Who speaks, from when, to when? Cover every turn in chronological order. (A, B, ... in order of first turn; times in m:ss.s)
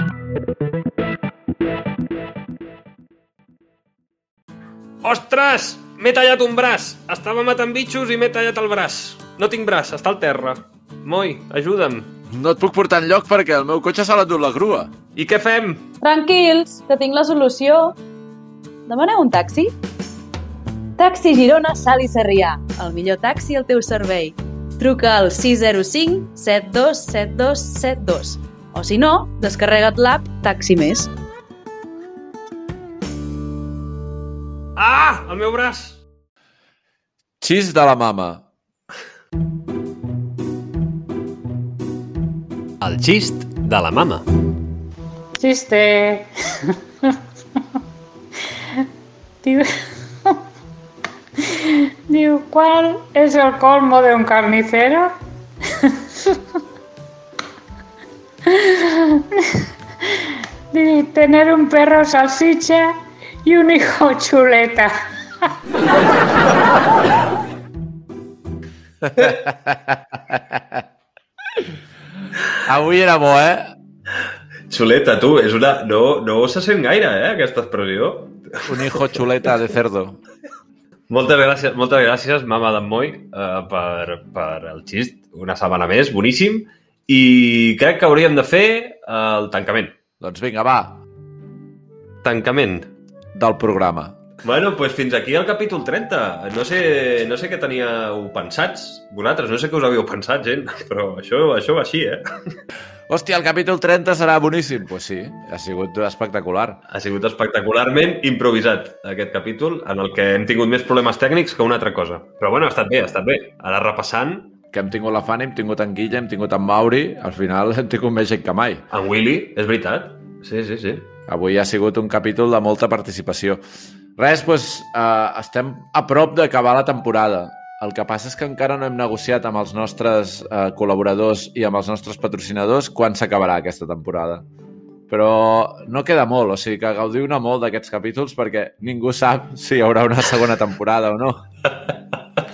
0:05.0-0:12.1 A
0:12.3-0:14.9 B
0:15.2-0:15.9 A
0:16.0-0:18.0 C
0:18.9-0:19.8 C
0:21.0-0:31.1 C
0:34.8-0:36.0 A
0:37.4-0:38.4 B
0:42.8-0:44.3 A
0:45.4-0:46.3 D
0:49.4-0:50.4 D
0:51.5-0:55.1 D
0:55.8-0:56.4 D
0:58.5-0:59.4 D
1:00.7-1:05.0 D
1:09.0-1:10.8 B
1:12.6-1:13.7 B
1:14.7-1:19.4 A
1:18.7-1:20.2 B
1:21.1-1:30.0 A
1:30.2-1:31.0 B
1:32.2-1:32.9 A
1:33.4-1:34.2 B
1:34.4-1:42.6 A
1:43.1-1:46.8 B
1:46.9-1:54.5 A
1:54.7-1:58.8 B
1:58.9-2:01.1 A
2:01.3-2:03.6 B
2:04.2-2:14.4 B
2:15.1-2:21.4 B